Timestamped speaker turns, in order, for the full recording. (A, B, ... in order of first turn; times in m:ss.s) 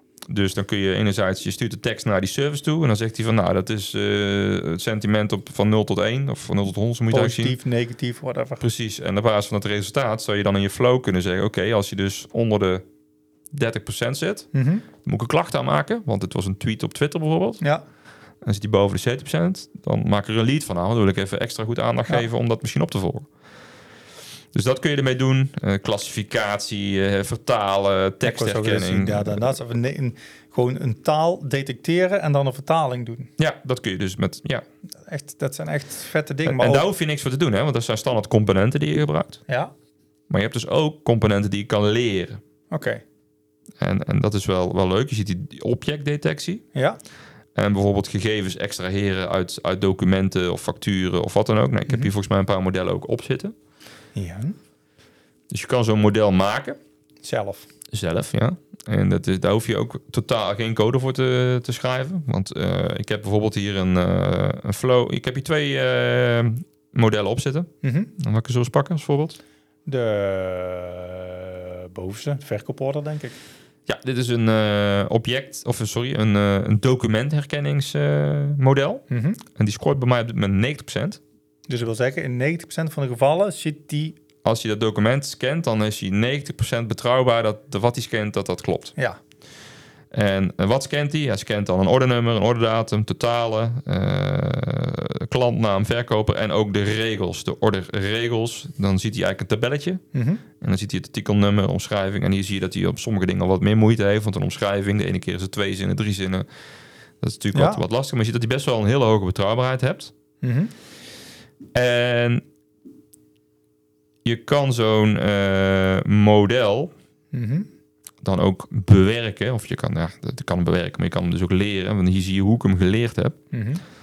0:00.3-0:07.6 A
0:07.1-0:08.6 B
0:08.6-0:12.8 A
0:13.5-0:17.6 A
0:14.5-0:14.9 B
0:18.4-0:23.3 A
0:24.5-0:29.6 A
0:28.2-0:33.3 B
0:33.4-0:34.6 A
0:35.0-0:36.9 B
0:36.5-0:39.4 A
0:40.3-0:42.4 A
0:42.7-0:43.0 B
0:43.8-0:46.6 A
0:47.6-0:53.5 A
0:54.2-0:54.6 B
0:55.5-0:56.8 A
0:57.2-0:57.7 B
0:57.9-1:09.4 A
1:07.8-1:08.1 B
1:09.9-1:13.4 B
1:13.9-1:21.2 A
1:19.1-1:19.4 B
1:21.7-1:24.2 B
1:24.4-1:29.0 A
1:30.1-1:40.0 A
1:40.1-1:40.4 B
1:40.6-1:46.5 A
1:47.2-1:50.1 A
1:47.5-1:47.8 B
1:50.4-1:50.7 B
1:51.7-1:52.4 A
1:54.2-1:56.9 A
1:57.3-1:57.7 B
1:58.2-2:03.4 A
2:03.5-2:03.8 B